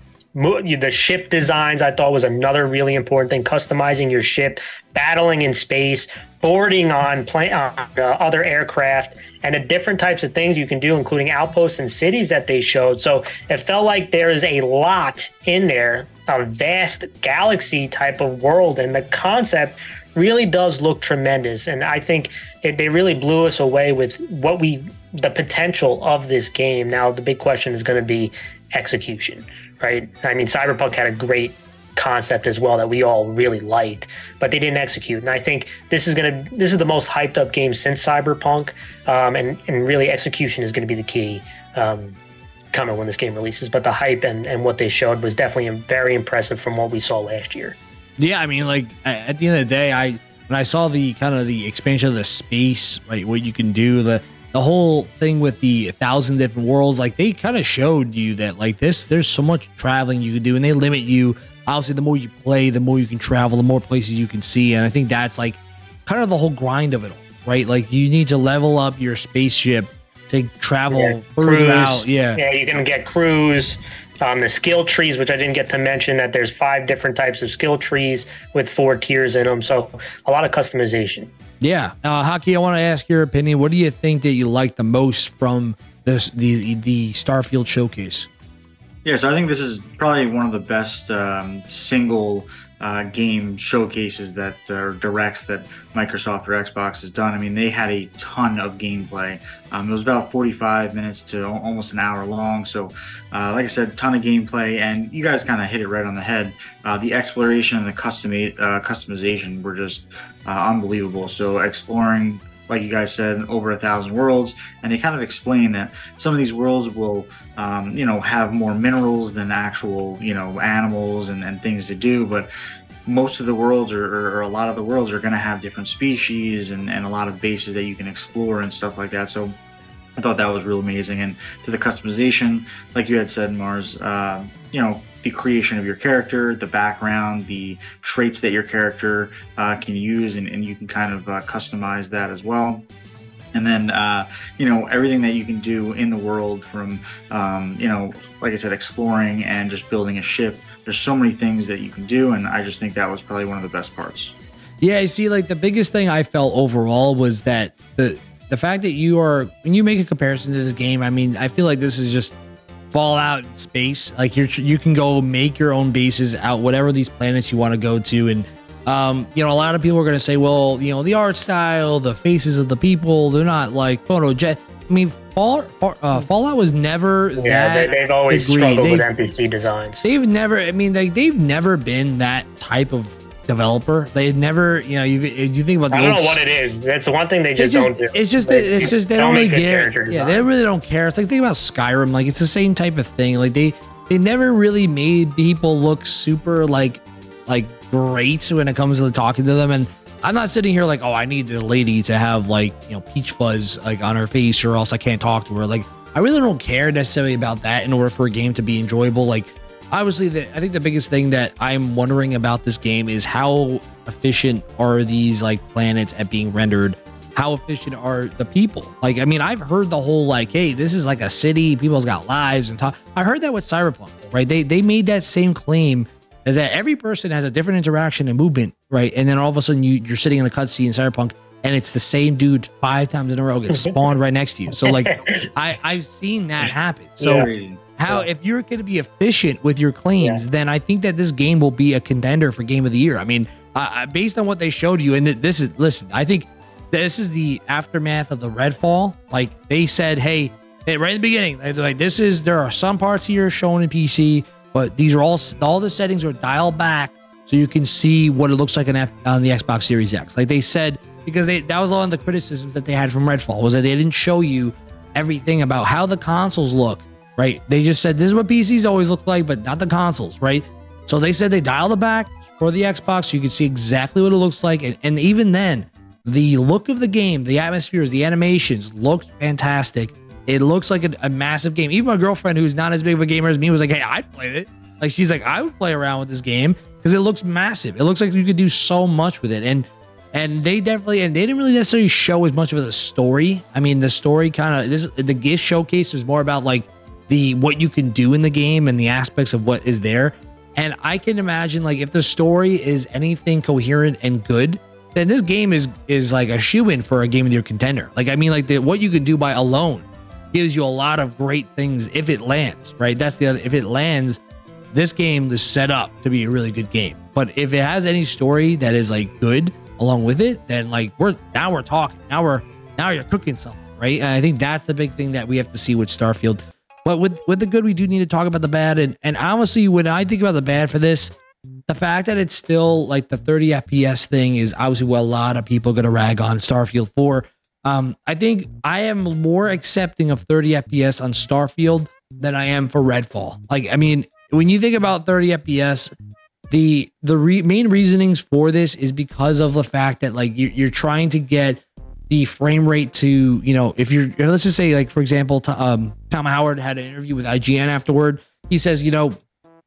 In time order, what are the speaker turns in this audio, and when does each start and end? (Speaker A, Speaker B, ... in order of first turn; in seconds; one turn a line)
Speaker A: 0.3-42.2
Speaker A: 42.7-47.8
Speaker B: 48.2-72.4
Speaker A: 70.9-81.3
Speaker B: 81.6-88.3
Speaker C: 89.0-122.5
Speaker C: 123.0-129.6
Speaker C: 130.2-142.8
Speaker C: 143.5-154.3
Speaker B: 154.8-162.3
Speaker B: 162.9-179.1
Speaker A: 177.4-180.0
Speaker B: 180.0-186.4
Speaker A: 185.9-190.4
Speaker B: 187.6-314.4
Speaker A: 234.8-235.3
Speaker C: 237.2-238.0
Speaker A: 237.2-237.5
Speaker B: 314.9-331.3
Speaker B: 331.9-346.1
Speaker B: 346.7-359.4